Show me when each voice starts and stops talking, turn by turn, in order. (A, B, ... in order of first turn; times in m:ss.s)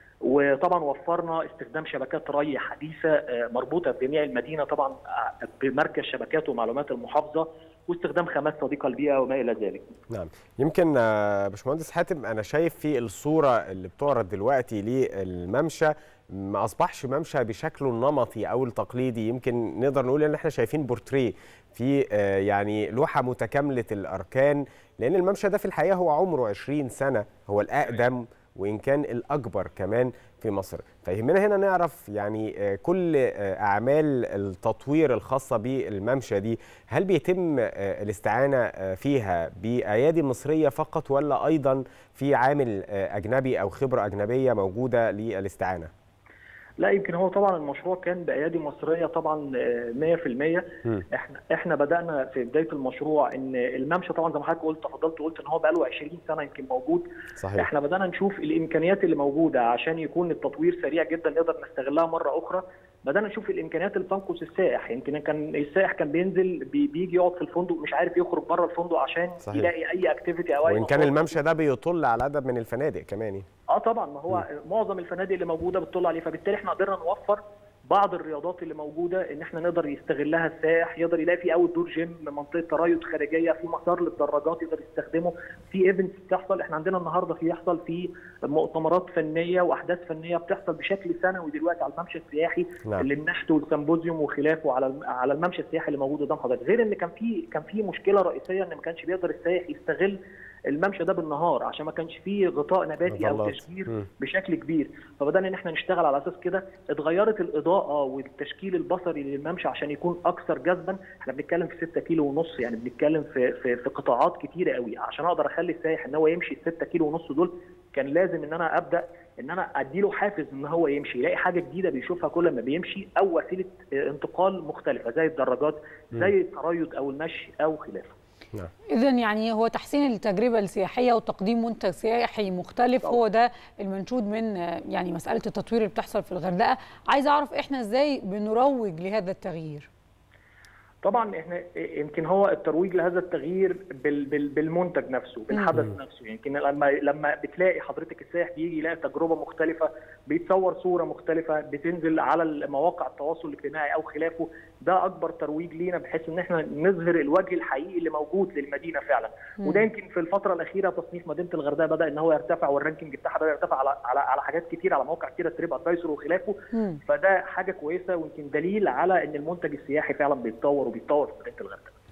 0:00.2-0:09.9 A
0:10.1-0:45.9 B
0:46.8-0:57.0 A
0:57.4-0:57.7 B
0:57.6-1:11.4 A
1:09.4-1:09.7 B
1:10.7-1:13.4 B
1:13.7-1:40.2 A
1:40.7-2:08.2 A
1:43.1-1:44.0 B
2:08.9-2:19.9 C
2:21.0-2:46.6 A
2:39.6-2:39.8 C
2:46.7-2:47.0 C
2:47.1-2:52.0 A